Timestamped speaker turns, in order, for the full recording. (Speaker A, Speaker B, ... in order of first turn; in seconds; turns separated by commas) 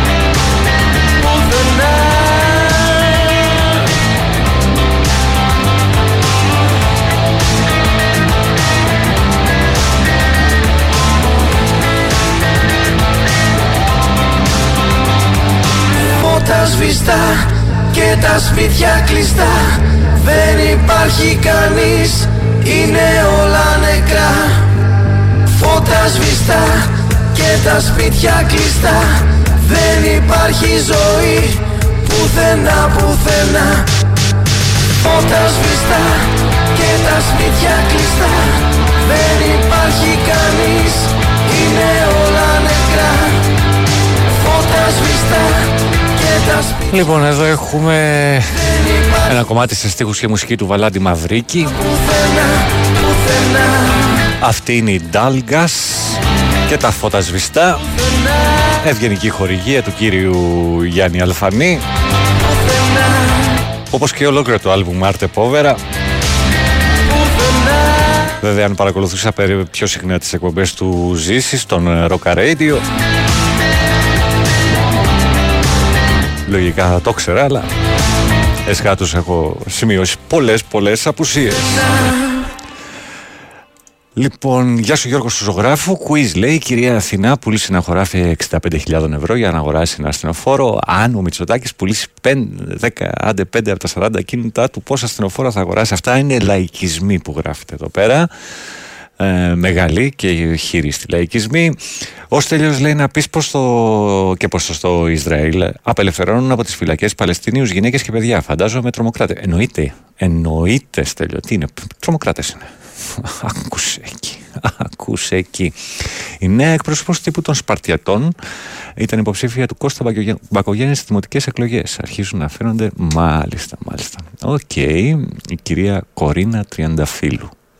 Speaker A: 1.2-3.1, Speaker A: 16.2-24.6, Speaker A: 25.6-33.9, Speaker A: 35.0-43.4, Speaker A: 44.4-46.9, Speaker B: 46.9-48.7, Speaker A: 48.9-49.2, Speaker B: 49.2-51.8, Speaker A: 51.8-54.2, Speaker B: 54.4-57.8, Speaker B: 58.8-61.8, Speaker A: 62.4-63.6, Speaker B: 63.9-65.8, Speaker A: 67.1-68.2, Speaker B: 68.4-72.9, Speaker B: 76.5-77.7, Speaker B: 78.7-81.9, Speaker B: 84.2-98.3, Speaker B: 99.2-101.8, Speaker B: 102.3-115.7, Speaker B: 116.4-118.3, Speaker B: 119.0-127.5